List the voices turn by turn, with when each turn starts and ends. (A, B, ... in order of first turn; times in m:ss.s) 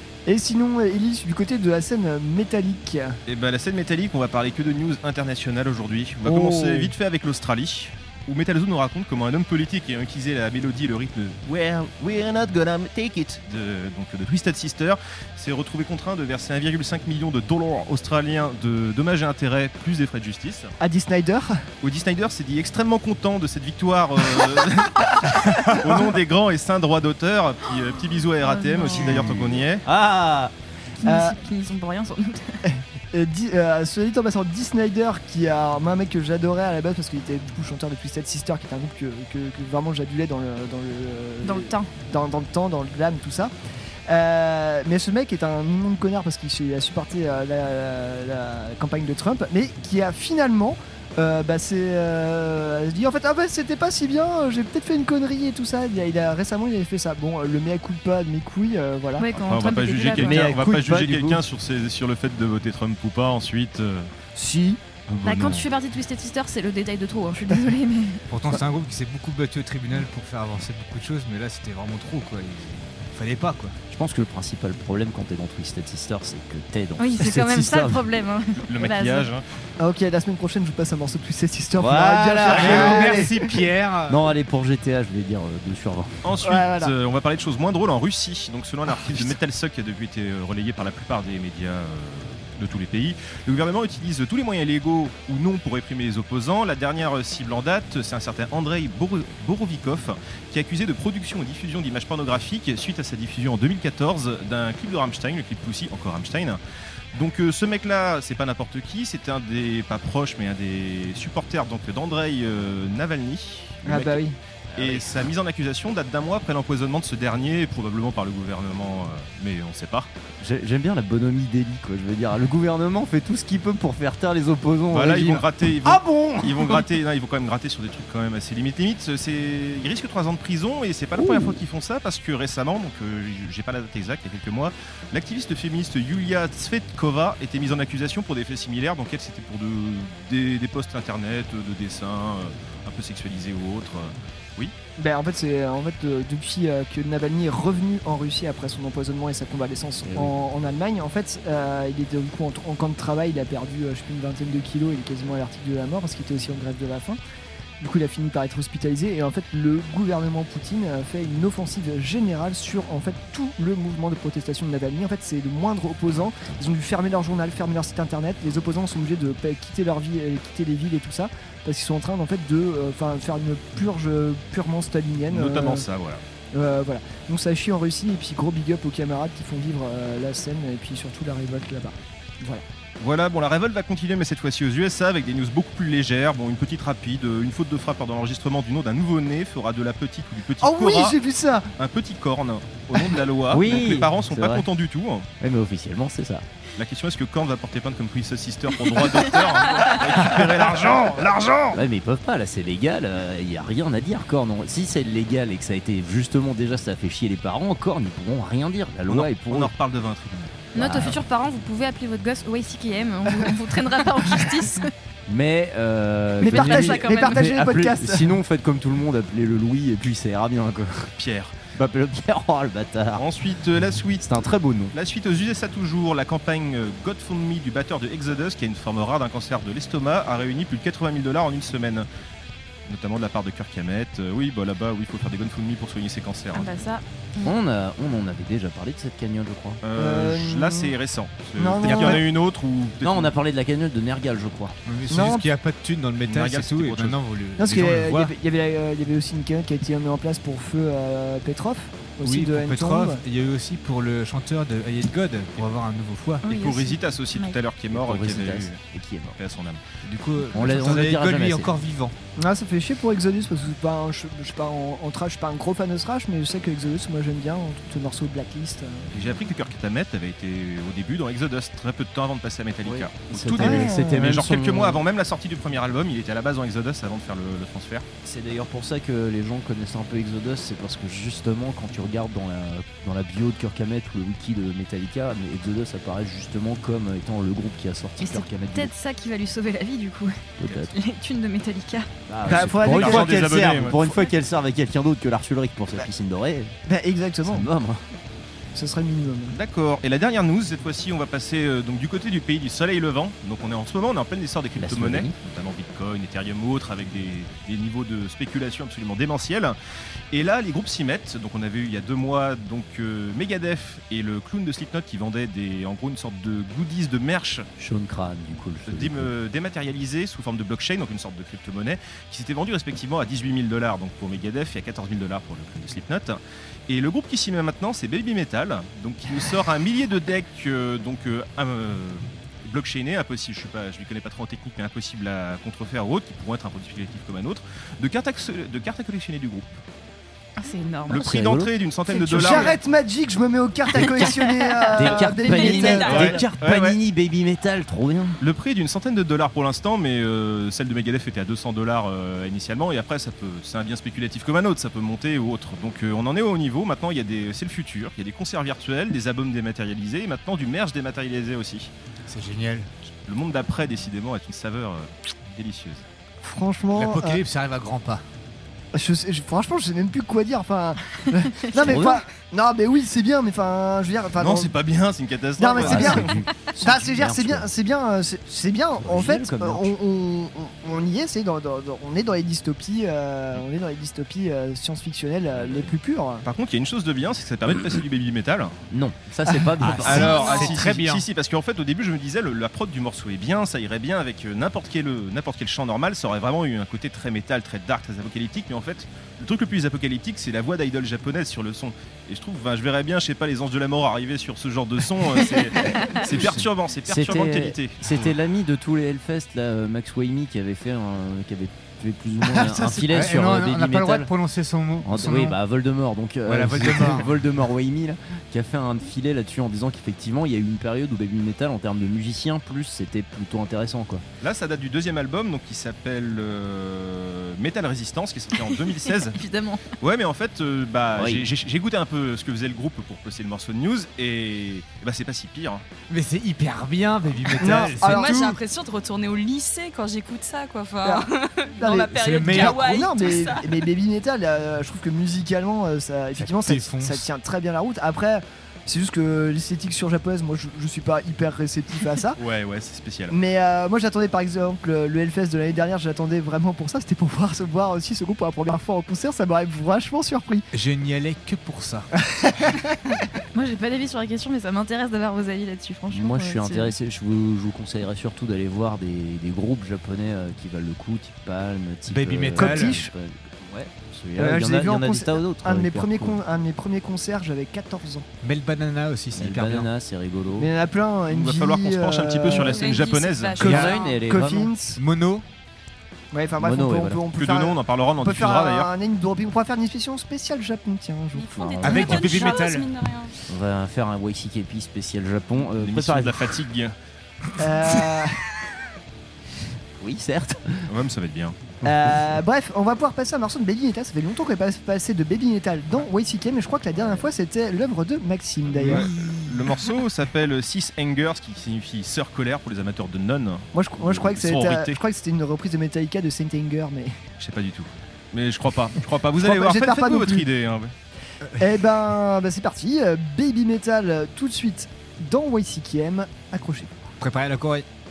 0:00.2-0:03.2 A
0:03.3-0:11.4 B
0:06.2-0:06.9 A
0:11.4-0:13.4 C
0:13.4-0:20.7 B
0:20.8-0:21.6 A
0:21.8-0:25.1 B
0:25.2-0:26.1 A
0:25.6-0:29.8 B
0:28.4-0:29.3 D
0:29.8-0:30.5 C
0:31.0-0:31.4 A
0:31.0-0:32.6 D
0:32.6-0:43.5 A
0:41.4-0:41.9 D
0:44.1-0:59.4 A
0:59.2-1:00.5 D
0:59.5-1:04.1 B
1:00.3-1:00.9 C
1:00.3-1:01.4 E
1:04.3-1:04.8 A
1:05.2-1:05.6 E
1:05.2-1:08.2 D
1:08.3-1:13.8 E
1:13.9-1:18.0 C
1:17.0-1:19.3 D
1:18.6-1:19.4 B
1:19.8-1:23.4 A
1:21.8-1:23.3 C
1:22.0-1:24.2 E
1:24.1-1:26.2 C
1:26.2-1:46.6 B
1:26.4-1:26.9 A
1:47.1-1:54.2 B
1:53.8-1:54.4 A
1:54.7-1:55.2 C
1:54.7-2:00.1 B
2:00.4-2:06.9 C
2:04.9-2:24.7 B
2:25.0-2:37.2 A
2:30.0-2:30.3 C
2:37.8-2:55.8 A
2:55.3-2:56.2 B
2:56.5-3:02.6 A
3:03.0-3:11.2 B
3:10.6-3:11.7 A
3:11.8-3:15.3 B
3:13.5-3:14.7 C
3:15.4-3:16.4 C
3:16.8-3:21.3 B
3:19.2-3:29.7 C
3:29.1-3:30.7 B
3:30.7-3:34.9 D
3:30.8-3:31.2 C
3:35.3-3:41.1 C
3:36.4-3:38.4 A
3:36.5-3:37.4 D
3:41.2-3:41.6 B
3:41.7-3:43.3 C
3:43.1-3:52.1 B
3:44.2-3:44.9 C
3:52.8-3:56.8 B
3:56.5-3:57.5 D
3:57.4-3:59.8 C
3:59.8-4:03.3 B
3:59.9-4:00.9 A
4:01.6-4:02.2 A
4:01.8-4:02.2 C
4:03.0-4:04.8 C
4:04.8-4:08.3 E
4:05.1-4:05.4 A
4:06.2-4:07.2 B
4:07.6-4:13.2 A
4:12.2-4:16.4 E
4:16.4-4:17.6 D
4:16.4-4:18.8 B
4:17.9-4:19.4 C
4:19.4-4:19.8 B
4:20.0-4:22.2 E
4:20.5-4:21.7 C
4:22.4-4:29.1 A
4:29.1-4:38.0 B
4:32.8-4:35.0 C
4:33.6-4:34.3 A
4:38.2-4:48.9 C
4:48.2-4:52.1 D
4:50.6-4:50.9 C
4:52.3-4:56.7 C
4:52.5-4:53.7 A
4:52.5-4:54.0 B
4:54.0-4:54.3 D
4:56.9-4:57.7 A
4:57.4-4:58.0 C
4:58.7-4:59.6 A
4:59.5-5:09.8 B
5:04.7-5:05.4 C
5:10.3-5:17.7 B
5:17.8-5:19.3 C
5:18.8-5:39.8 B
5:40.6-5:41.3 D
5:41.1-5:42.7 B
5:41.1-5:41.7 C
5:42.1-5:42.7 D
5:42.3-5:42.7 C
5:42.3-5:46.4 A
5:43.9-5:44.4 C
5:43.9-5:46.3 D
5:44.9-5:48.4 C
5:46.0-5:47.0 B
5:48.4-6:01.9 B
6:02.3-6:02.9 E
6:03.2-6:06.0 B
6:06.4-6:07.4 A
6:06.9-6:08.2 E
6:08.9-6:14.7 A
6:11.7-6:12.2 C
6:14.4-6:16.3 B
6:15.6-6:26.4 A
6:15.7-6:17.7 C
6:18.9-6:19.9 C
6:26.4-6:28.8 B
6:27.7-6:28.0 C
6:28.9-6:30.7 C
6:29.8-6:31.2 E
6:30.0-6:48.3 B
6:46.2-6:54.3 C
6:52.4-6:53.2 A
6:53.1-6:55.6 E
6:55.0-7:04.2 C
6:56.4-6:57.3 E
7:04.4-7:09.4 B
7:08.6-7:09.8 D
7:10.0-7:15.8 B
7:11.1-7:11.5 C
7:16.1-7:18.4 E
7:17.6-7:18.6 A
7:17.7-7:23.7 F
7:21.8-7:32.4 A
7:22.1-7:22.8 E
7:26.4-7:27.3 E
7:32.4-7:33.3 B
7:33.3-7:40.6 A
7:40.7-7:42.1 E
7:42.3-7:43.2 A
7:43.5-7:46.9 D
7:46.1-7:56.4 C
7:52.1-7:53.0 E
7:52.6-7:53.1 A
7:54.4-7:58.3 A
7:58.4-7:59.9 E
7:59.3-8:00.7 C
8:00.6-8:03.0 A
8:01.3-8:03.6 B
8:02.6-8:04.2 F
8:03.6-8:05.0 A
8:03.6-8:04.7 C
8:05.0-8:05.4 E
8:06.3-8:11.8 A
8:06.6-8:07.3 C
8:07.3-8:08.9 B
8:11.4-8:13.3 F
8:11.6-8:12.5 C
8:11.8-8:12.8 E
8:13.5-8:16.5 C
8:15.6-8:17.0 B
8:17.6-8:18.4 A
8:20.0-8:20.9 C
8:20.9-8:21.6 B
8:21.8-8:29.2 A
8:28.7-8:35.0 B
8:28.8-8:29.1 C
8:33.7-8:37.2 A
8:37.4-8:40.9 B
8:39.4-8:40.5 A
8:41.4-8:41.8 E
8:41.6-8:47.0 A
8:47.2-8:47.8 E